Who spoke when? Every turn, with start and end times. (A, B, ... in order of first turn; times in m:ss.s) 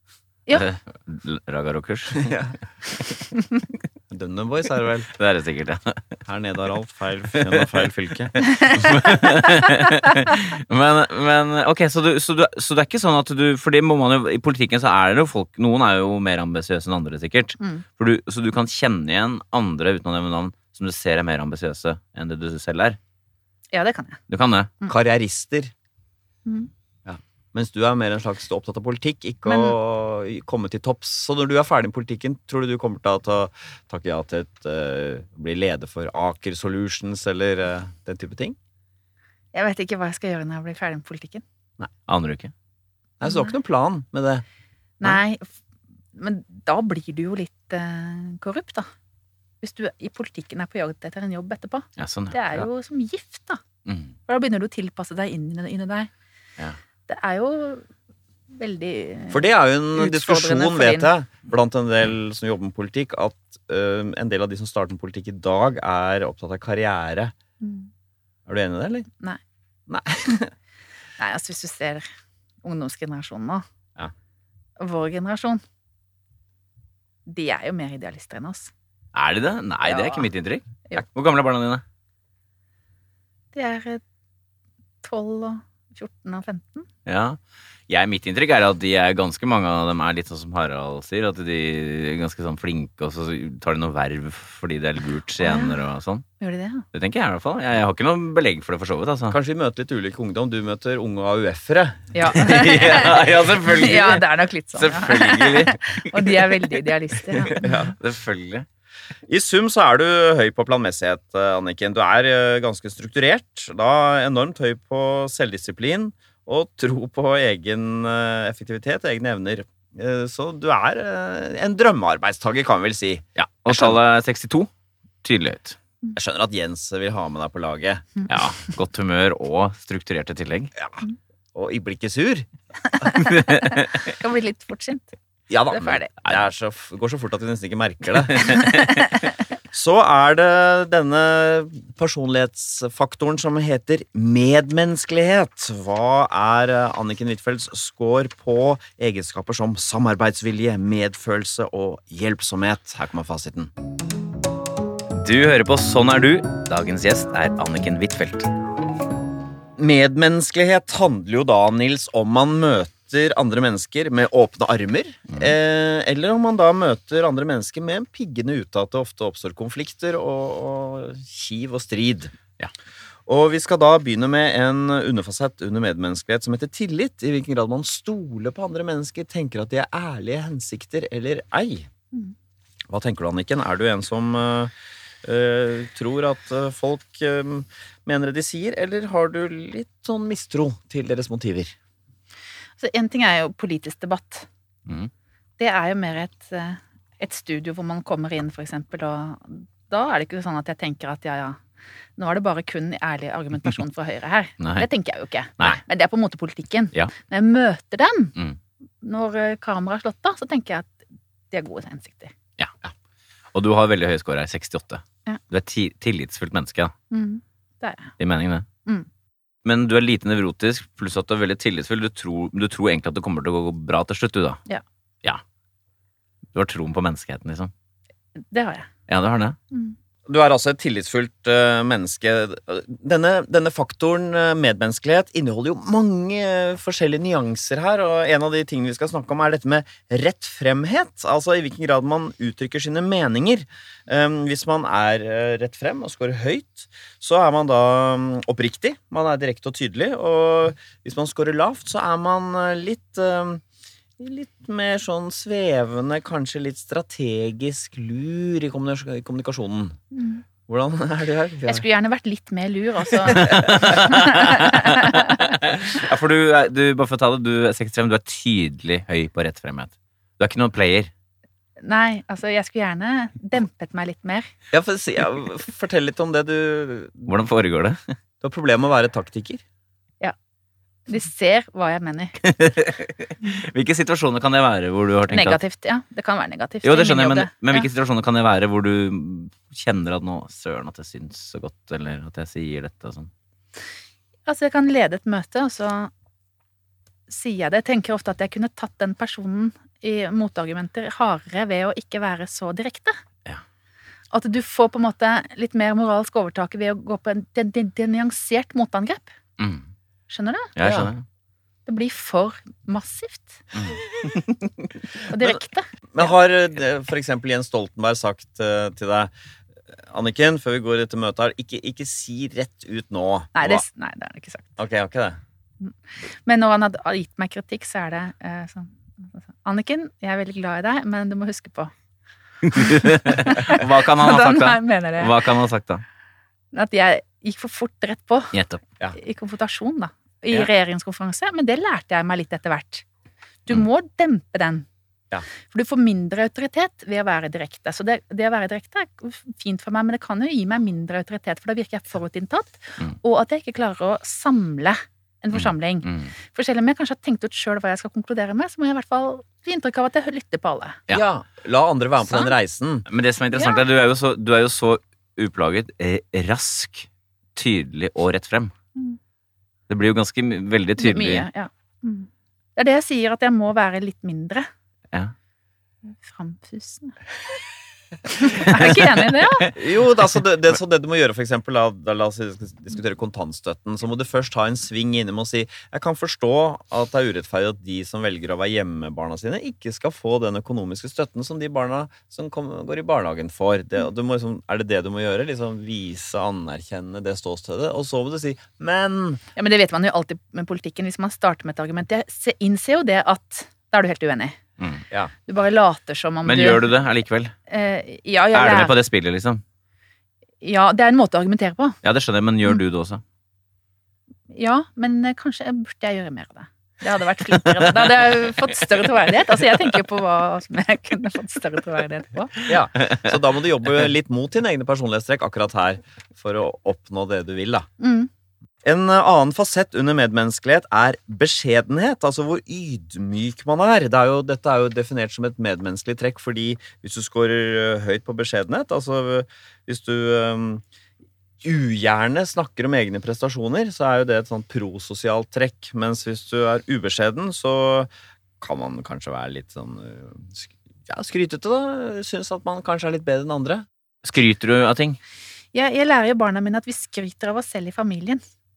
0:00.5-0:02.3 A
0:02.2-0:02.5 B
0:04.1-0:05.1 B
0:05.1-0:06.2 A
0:06.2-0:08.3 B
0:07.4-0:07.7 A
0:08.4-0:09.1 C
0:08.6-0:23.0 A
0:23.7-0:24.2 C
0:24.3-0:24.7 A
0:24.9-0:25.7 B
0:27.0-0:38.6 B
0:29.4-0:29.7 C
0:39.5-0:41.4 C
0:42.1-0:42.5 A
0:43.2-0:44.4 B
0:43.2-0:43.5 C
0:45.0-0:45.5 C
0:46.1-0:48.9 C
0:49.6-0:53.6 C
0:52.0-0:52.4 A
0:53.8-0:54.1 A
0:54.3-0:56.1 C
0:57.1-0:57.8 C
0:58.5-1:01.1 C
0:59.3-1:07.3 B
1:07.6-1:07.9 C
1:08.5-1:09.1 B
1:09.9-1:10.5 B
1:11.2-1:12.0 C
1:12.6-1:13.6 C
1:14.8-1:15.6 C
1:17.2-1:18.7 C
1:19.1-1:21.8 A
1:19.8-1:20.3 C
1:23.5-1:24.0 C
1:25.0-1:26.9 C
1:27.0-1:27.4 A
1:27.9-1:36.2 A
1:35.4-1:35.8 C
1:36.4-1:36.8 C
1:36.9-1:39.4 A
1:39.3-1:42.1 B
1:42.1-1:47.7 C
1:42.3-1:46.8 A
1:47.4-1:48.6 A
1:47.6-1:47.9 B
1:49.3-2:03.2 B
2:03.4-2:04.7 A
2:05.2-2:05.8 A
2:06.1-2:08.2 B
2:08.3-2:10.7 A
2:11.5-2:12.5 B
2:12.9-2:15.1 C
2:13.3-2:13.7 A
2:15.5-2:18.7 B
2:15.7-2:16.1 C
2:18.3-2:18.6 A
2:19.7-2:33.7 B
2:35.1-2:38.5 A
2:39.8-2:52.3 B
2:53.3-3:01.9 B
3:02.9-3:04.7 B
3:05.2-3:11.7 B
3:12.8-3:14.5 C
3:15.6-3:21.6 C
3:22.2-3:28.3 C
3:24.6-3:24.9 A
3:29.0-3:32.3 C
3:33.5-3:36.9 A
3:37.1-3:38.1 C
3:38.2-3:38.6 A
3:39.6-3:44.6 A
3:46.5-3:47.7 A
3:48.4-3:48.9 C
3:49.1-3:49.6 A
3:49.7-3:50.0 C
3:50.2-4:13.6 B
4:14.2-4:20.0 B
4:20.1-4:20.4 C
4:20.7-4:21.8 B
4:21.7-4:25.5 C
4:23.3-4:23.7 B
4:23.3-4:31.1 A
4:31.8-4:34.5 C
4:34.7-4:37.3 B
4:37.3-4:38.1 A
4:38.4-4:39.6 B
4:41.1-4:42.4 C
4:42.4-4:45.6 A
4:45.3-4:47.9 C
4:46.8-4:53.3 A
4:54.5-4:56.1 C
4:57.3-5:03.2 C
5:04.3-5:09.3 C
5:09.6-5:09.8 A
5:10.3-5:10.7 C
5:10.8-5:11.2 A
5:10.8-5:11.1 B
5:11.8-5:13.6 C
5:15.2-5:15.9 C
5:16.1-5:19.3 B
5:20.0-5:23.8 B
5:23.5-5:24.7 C
5:24.8-5:25.4 B
5:25.8-5:31.9 C
5:32.6-5:36.0 A
5:32.7-5:35.4 C
5:36.7-5:38.5 C
5:38.5-5:38.8 A
5:39.1-5:43.0 C
5:43.7-5:44.9 C
5:45.7-6:01.0 C
5:55.5-5:56.3 A
6:01.1-6:03.1 B
6:03.1-6:08.7 A
6:03.5-6:03.8 C
6:09.9-6:11.5 A
6:11.0-6:14.7 C
6:16.1-6:17.2 C
6:18.2-6:19.7 C
6:18.5-6:19.8 A
6:19.7-6:39.4 B
6:39.6-6:44.6 C
6:44.8-6:45.0 A
6:45.4-6:46.9 C
6:46.4-6:47.5 A
6:47.7-6:48.9 C
6:48.5-6:49.6 A
6:50.6-6:52.0 C
6:52.0-6:53.2 A
6:54.5-7:02.7 C
7:02.6-7:07.9 B
7:08.0-7:08.3 C
7:08.8-7:20.8 B
7:21.6-7:28.1 B
7:28.6-7:33.8 B
7:34.2-7:35.2 A
7:35.7-7:38.4 C